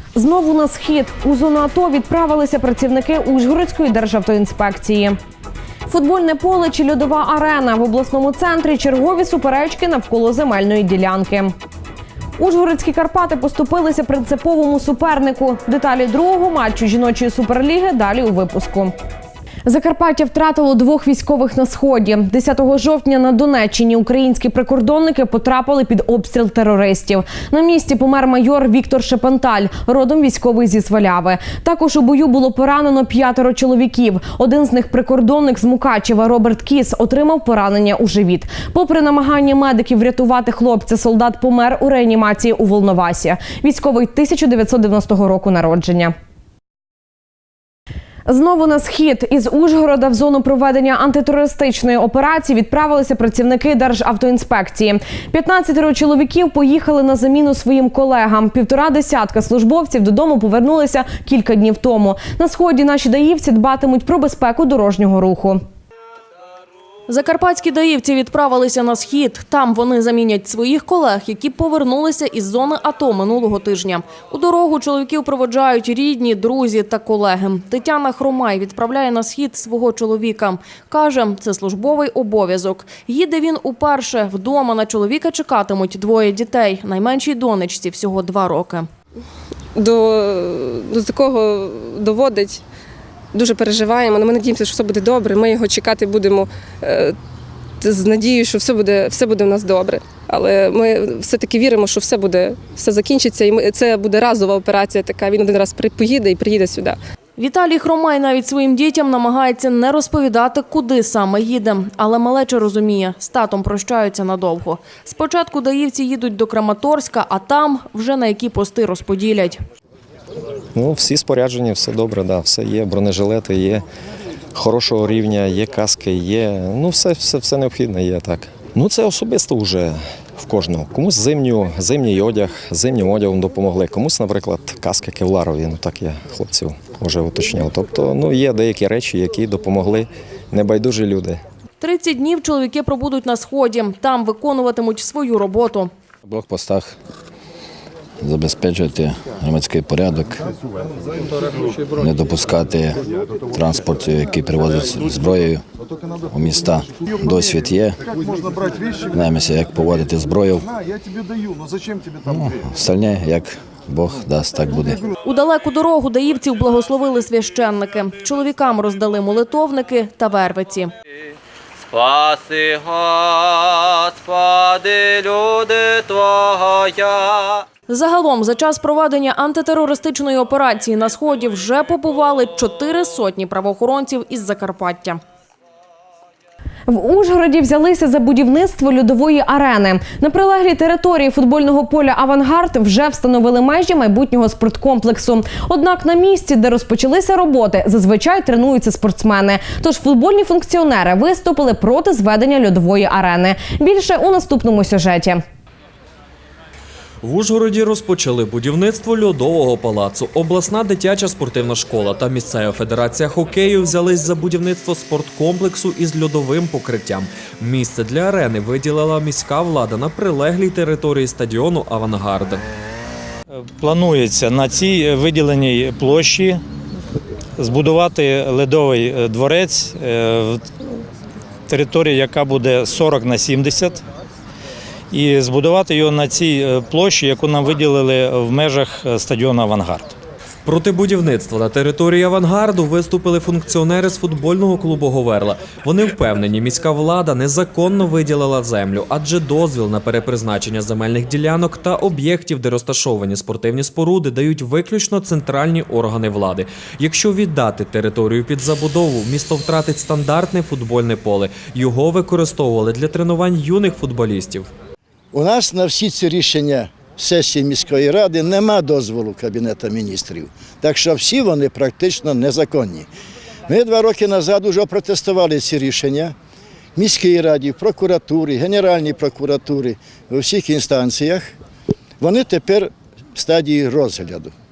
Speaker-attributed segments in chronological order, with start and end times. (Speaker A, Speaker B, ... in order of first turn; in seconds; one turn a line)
Speaker A: 0.1-5.2
Speaker A: 5.9-11.5
Speaker A: 12.4-18.9
Speaker A: 19.6-46.1
Speaker A: 48.3-65.6
Speaker B: 67.1-88.9
Speaker C: 89.7-92.6
Speaker C: 93.3-97.2
Speaker C: 97.8-107.0
Speaker B: 107.4-119.6
Speaker D: 120.7-123.8
Speaker D: 124.5-141.4
Speaker B: 141.8-145.9
Speaker E: 146.3-146.9
Speaker E: 148.2-150.4
Speaker E: 152.0-153.0
Speaker E: 153.5-155.6
Speaker E: 156.3-158.0
Speaker E: 159.1-160.7
Speaker E: 162.2-165.0
Speaker B: 165.2-170.9
Speaker B: 177.9-185.2
Speaker A: 186.9-205.4
Speaker F: 207.2-222.6
Speaker G: 223.8-226.6
Speaker G: 227.7-230.6
Speaker G: 231.8-234.0
Speaker G: 235.1-240.1
Speaker F: 240.6-264.7
Speaker H: 265.3-273.1
Speaker H: 273.7-276.3
Speaker H: 277.0-281.5
Speaker H: 282.2-284.5